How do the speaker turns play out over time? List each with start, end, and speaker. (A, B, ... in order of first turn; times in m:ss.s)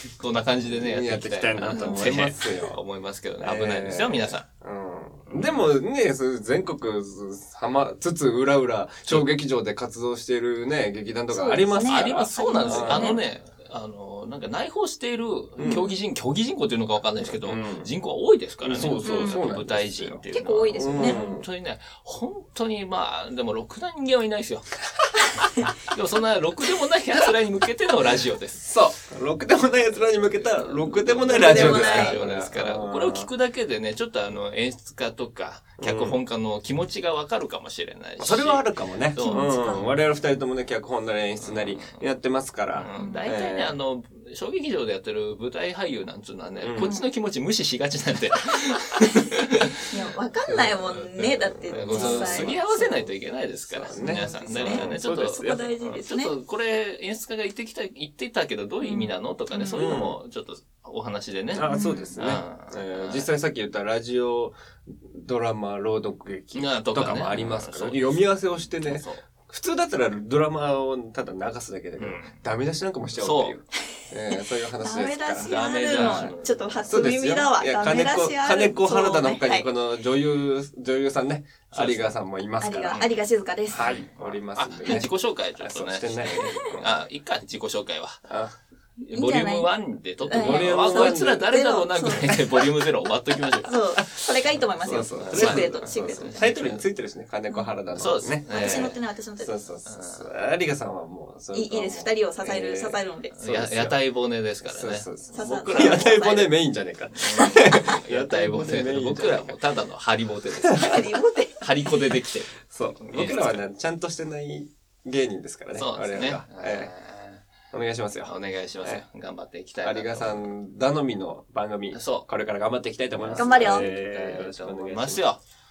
0:00.2-0:04.4 A
0:00.6-0:02.8 B
0:01.7-0:02.0 C
0:03.4-0:13.2 B
0:05.3-0:05.6 A
0:11.3-0:13.2 C
0:11.8-0:24.7 A
0:15.6-0:15.8 B
0:15.6-0:15.9 C
0:17.4-0:17.9 B
0:18.6-0:20.2 B
0:19.0-0:19.6 C
0:20.3-0:21.4 C
0:20.8-0:21.5 B
0:25.4-0:28.7 A
0:28.6-0:33.3 B
0:29.8-0:40.0 A
0:31.3-0:32.2 C
0:35.8-0:36.2 B
0:38.2-0:43.7 B
0:39.2-0:39.8 C
0:41.4-0:42.0 A
0:42.7-0:49.7 A
0:43.0-0:43.3 C
0:46.6-0:46.9 B
0:49.9-0:52.6 C
0:50.4-0:53.1 B
0:50.9-1:03.3 A
0:53.7-0:55.8 B
0:54.0-0:56.3 C
0:58.8-0:59.9 C
0:59.7-1:00.2 B
1:01.5-1:16.3 B
1:01.6-1:02.2 C
1:06.5-1:09.3 A
1:12.0-1:12.4 A
1:13.2-1:13.6 A
1:14.8-1:19.7 C
1:15.4-1:17.2 A
1:16.8-1:23.0 B
1:21.7-1:22.2 A
1:22.6-1:23.9 C
1:22.9-1:23.2 A
1:23.7-1:27.0 B
1:23.7-1:28.2 A
1:26.4-1:26.8 C
1:28.3-1:28.5 B
1:29.0-1:33.8 A
1:29.1-1:32.5 C
1:30.3-1:31.5 B
1:32.2-1:32.6 B
1:33.6-1:36.5 C
1:34.0-1:44.0 B
1:34.8-1:36.8 A
1:37.5-1:37.7 C
1:38.0-1:39.0 A
1:38.5-1:39.6 C
1:39.8-1:40.3 A
1:41.5-1:43.3 C
1:43.3-1:46.3 A
1:44.5-1:49.5 B
1:45.3-1:46.5 C
1:47.2-1:51.0 A
1:50.7-1:51.0 B
1:50.8-1:51.7 C
1:51.6-1:53.6 A
1:52.7-1:56.9 B
1:55.7-1:57.4 A
1:57.7-1:59.0 B
1:58.2-2:00.5 A
1:59.8-2:05.2 B
2:01.9-2:02.3 A
2:03.2-2:05.4 A
2:03.4-2:03.9 C